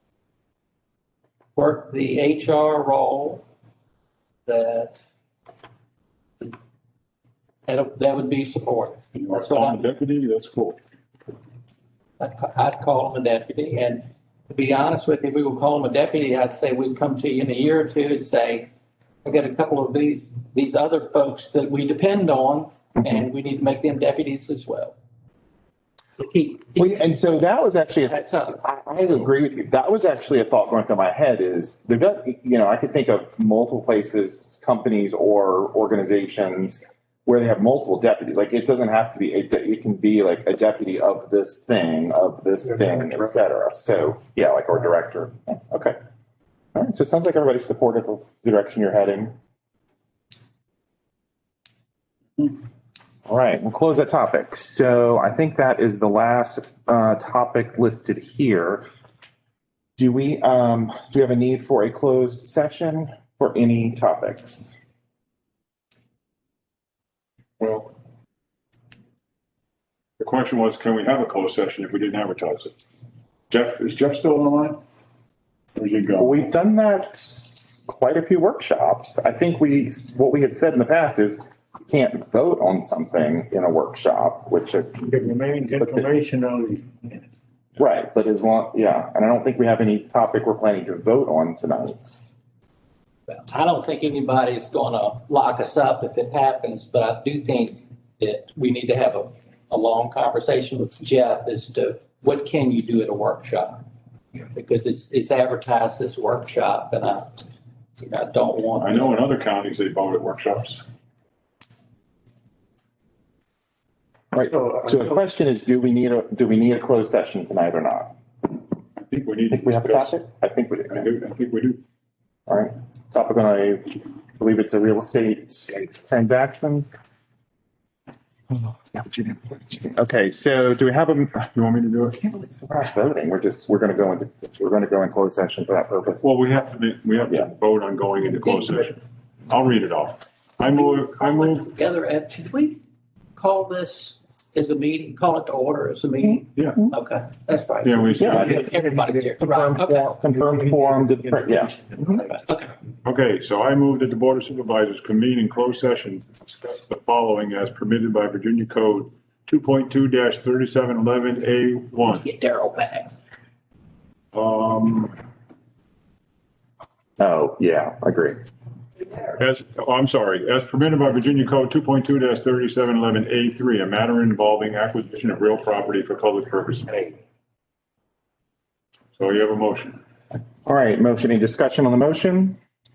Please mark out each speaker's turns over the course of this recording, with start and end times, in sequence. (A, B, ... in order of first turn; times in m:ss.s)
0:01.6-0:03.4 A
0:04.5-0:05.0 A
0:07.7-0:09.8 A
0:09.2-0:10.8 B
0:12.2-0:18.7 A
0:19.2-0:25.0 A
0:26.2-0:27.0 A
0:26.8-0:46.0 C
0:28.1-0:28.6 A
0:46.8-0:49.4 C
0:53.3-0:58.9 C
1:00.0-1:04.8 C
1:07.6-1:07.9 B
1:10.2-1:12.7 B
1:13.5-1:14.8 B
1:15.8-1:16.4 B
1:16.2-1:25.0 C
1:25.0-1:27.2 D
1:27.8-1:32.2 C
1:33.3-1:43.8 A
1:44.5-1:47.5 A
1:48.0-1:49.2 A
1:48.8-1:50.8 B
1:54.3-1:58.1 C
1:59.0-2:00.1 B
1:59.5-2:01.1 C
2:00.9-2:01.8 B
2:02.5-2:06.9 C
2:08.9-2:11.5 C
2:11.5-2:12.4 B
2:12.4-2:16.3 C
2:16.2-2:21.7 B
2:20.7-2:22.8 A
2:23.4-2:30.2 A
2:27.8-2:28.7 B
2:28.2-2:28.6 C
2:29.6-2:32.2 C
2:30.4-2:32.2 D
2:32.2-2:32.7 A
2:33.0-2:42.3 B
2:42.1-2:43.1 A
2:44.3-2:45.2 B
2:47.2-2:48.4 C
2:49.4-2:57.2 B
2:59.2-3:00.0 B
3:00.6-3:02.6 C